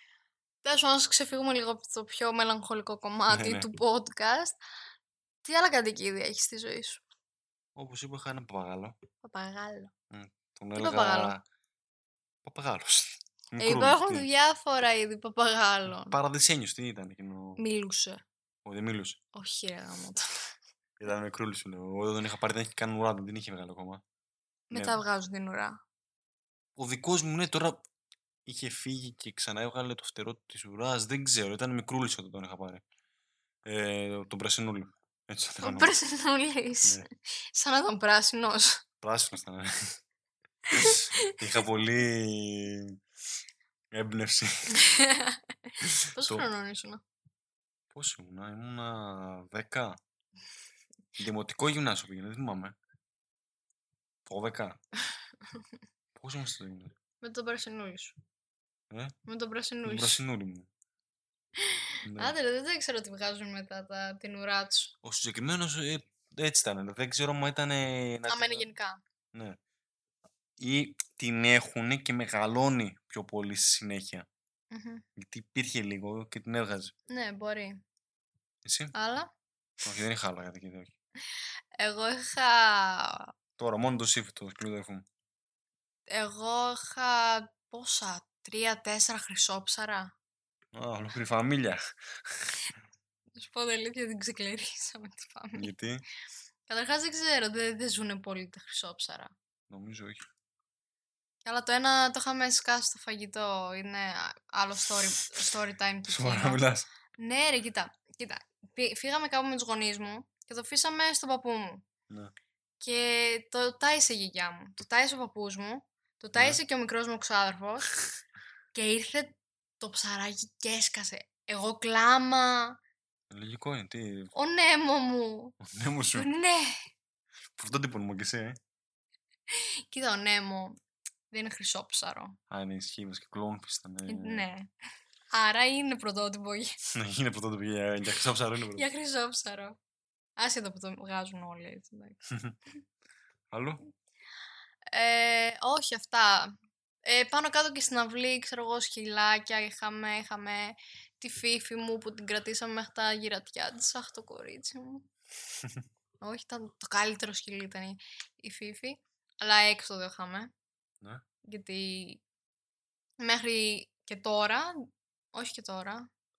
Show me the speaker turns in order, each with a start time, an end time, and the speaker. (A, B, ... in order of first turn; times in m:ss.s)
0:00.6-0:04.6 A
0:03.3-0:03.7 B
0:05.4-0:07.0 A
0:07.8-0:09.0 B
0:09.2-0:09.9 A
0:10.1-0:11.4 B
0:10.8-0:11.4 A
0:12.4-0:14.3 B
0:13.6-0:16.2 A
0:15.9-0:17.6 B
0:17.6-0:18.2 A
0:18.6-0:19.2 B
0:19.3-0:20.2 A
0:21.0-0:24.0 B
0:24.7-0:25.8 A
0:24.7-0:25.0 B
0:26.8-0:27.8 B
0:28.4-0:32.8 B
0:33.7-0:36.0 B
0:35.6-0:38.8 A
0:39.0-0:40.0 B
0:40.8-0:41.0 A
0:41.4-0:43.0 B
0:43.9-0:44.8 B
0:44.8-0:45.4 A
0:46.1-0:47.0 A
0:46.2-0:46.5 B
0:47.9-0:50.0 B
0:51.2-0:52.8 B
0:54.3-0:54.8 B
0:56.2-0:56.9 B
0:57.2-0:58.2 A
0:59.3-1:00.2 A
0:59.8-1:00.7 B
1:02.0-1:02.4 B
1:02.2-1:04.9 A
1:05.0-1:08.7 B
1:08.3-1:09.0 A
1:10.6-1:14.3 B
1:14.7-1:15.0 A
1:15.2-1:16.9 B
1:17.1-1:17.8 A
1:18.6-1:18.9 B
1:18.9-1:19.3 A
1:19.8-1:20.9 B
1:21.8-1:23.3 A
1:23.6-1:25.1 B
1:26.1-1:30.1 A
1:30.7-1:31.8 B
1:33.4-1:35.7 A
1:35.6-1:36.0 B
1:36.7-1:39.3 A
1:39.7-1:40.2 B
1:41.5-1:46.6 A
1:46.1-1:46.9 B
1:47.2-1:51.8 A
1:52.8-1:57.9 A
1:56.4-1:56.6 B
1:58.7-2:02.8 A
2:03.3-2:04.3 B
2:04.4-2:05.6 A
2:05.7-2:06.3 B
2:06.2-2:06.8 A
2:07.6-2:08.6 B
2:09.9-2:10.8 A
2:11.3-2:12.4 A
2:12.5-2:14.5 B
2:14.1-2:14.7 A
2:15.3-2:16.7 A
2:17.0-2:18.8 B
2:18.7-2:19.8 A
2:20.4-2:22.2 A
2:23.5-2:23.8 B
2:24.9-2:35.1 A
2:36.2-2:40.5 A
2:41.5-2:42.2 A
2:43.2-2:44.7 A
2:45.3-2:46.1 A